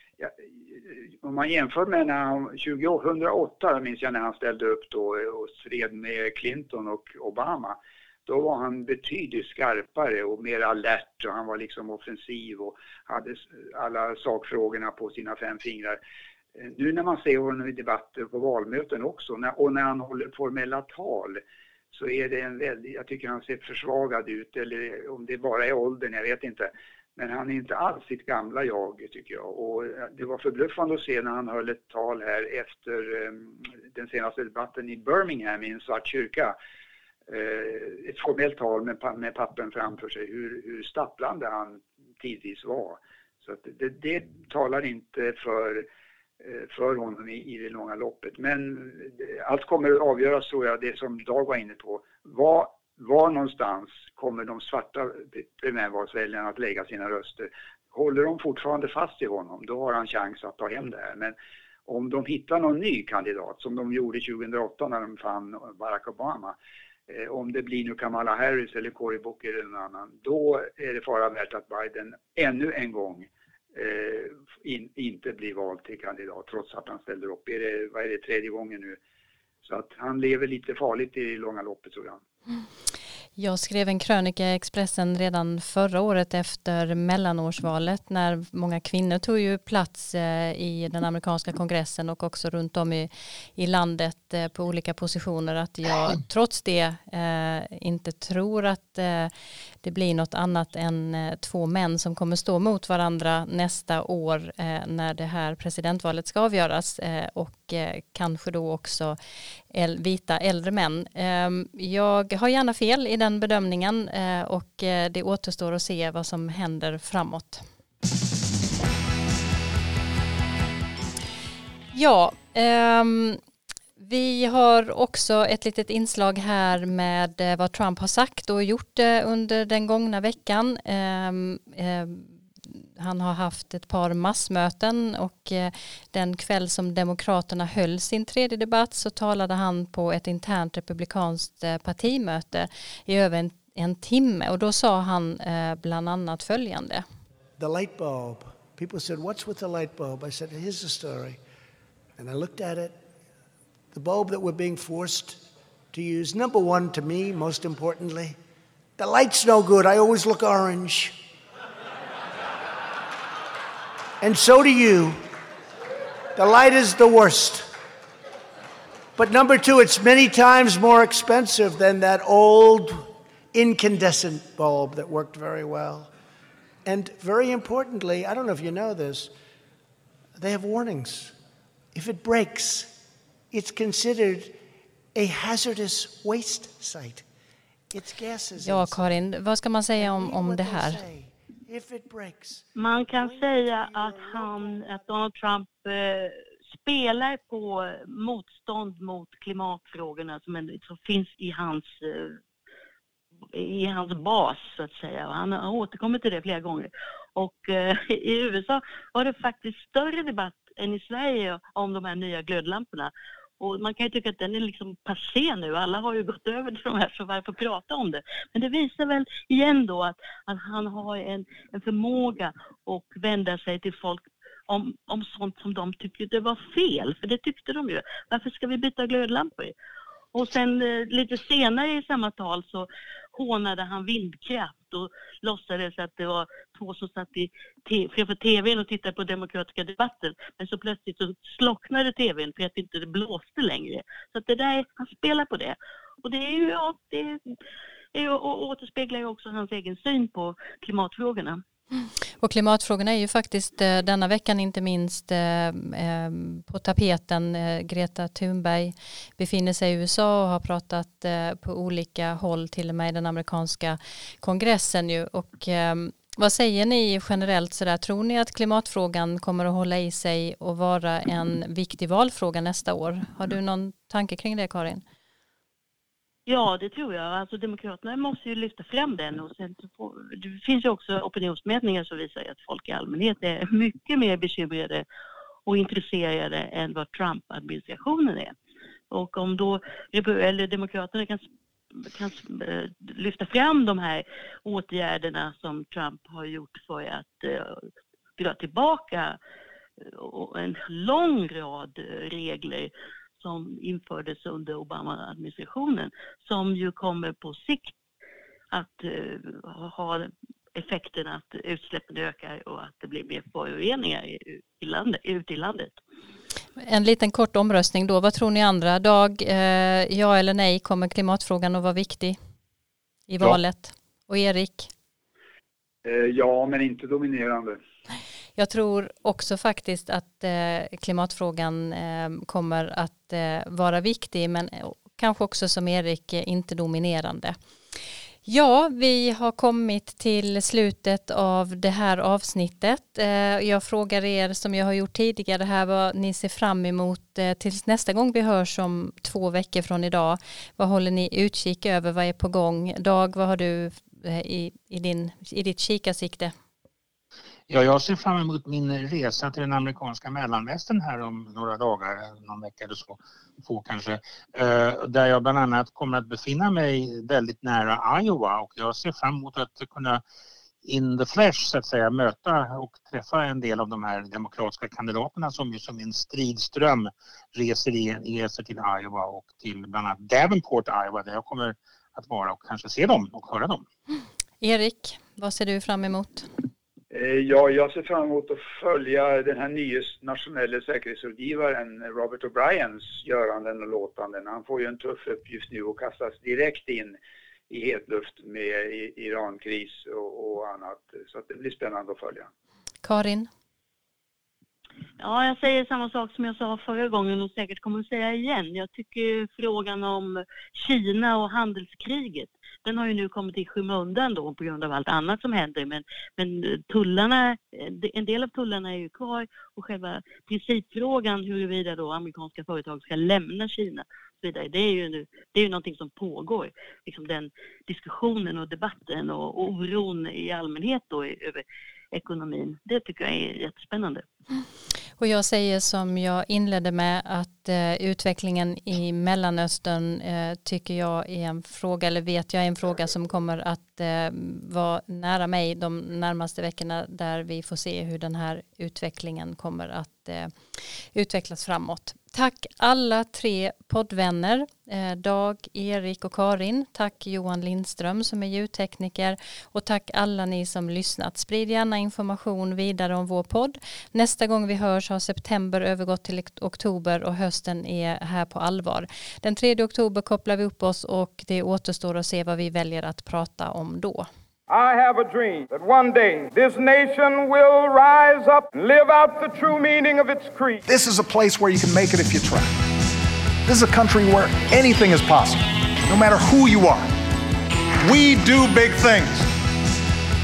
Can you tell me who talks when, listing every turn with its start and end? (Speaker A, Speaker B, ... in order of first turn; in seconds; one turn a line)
Speaker A: 0.2-16.0
Speaker A: 16.6-36.6
Speaker A: 37.3-45.9
Speaker A: 46.4-61.4
Speaker A: 61.9-66.6
Speaker A: 67.1-79.0
Speaker A: 79.6-82.2
Speaker B: 83.4-109.2
Speaker B: 109.7-117.7
Speaker B: 121.9-123.4
Speaker B: 124.0-147.0
Speaker C: 147.6-151.4
Speaker C: 152.2-153.0
Speaker C: 153.9-158.4
Speaker C: 159.0-161.2
Speaker C: 164.2-165.2
Speaker C: 166.4-167.7
Speaker C: 169.2-176.1
Speaker C: 176.8-179.3
Speaker C: 180.3-181.4
Speaker C: 181.9-183.0
Speaker C: 183.5-184.6
Speaker C: 185.2-187.2
Speaker C: 187.9-189.0
Speaker B: 188.6-191.0
Speaker C: 190.0-195.1
Speaker D: 192.8-202.4
Speaker D: 203.5-229.7
Speaker D: 230.3-247.6
Speaker D: 248.1-251.6
Speaker B: 252.0-275.0
Speaker D: 276.5-285.1
Speaker D: 285.7-288.5
Speaker D: 289.1-299.4
Speaker D: 300.0-307.9
Speaker D: 308.7-316.0
Speaker B: 316.8-322.4
Speaker B: 323.3-324.9
Speaker A: 326.0-327.8
Speaker B: 328.6-337.6
Speaker B: 338.5-356.5
Speaker E: 357.7-370.2
Speaker E: 370.8-383.9
Speaker B: 384.6-386.5
Speaker A: 387.1-397.2
Speaker A: 397.7-402.5
Speaker B: 403.0-403.5
Speaker D: 405.2-434.2
Speaker B: 435.2-474.3
Speaker F: 474.7-480.8
Speaker G: 480.9-482.7
Speaker G: 483.7-487.1
Speaker G: 488.0-489.5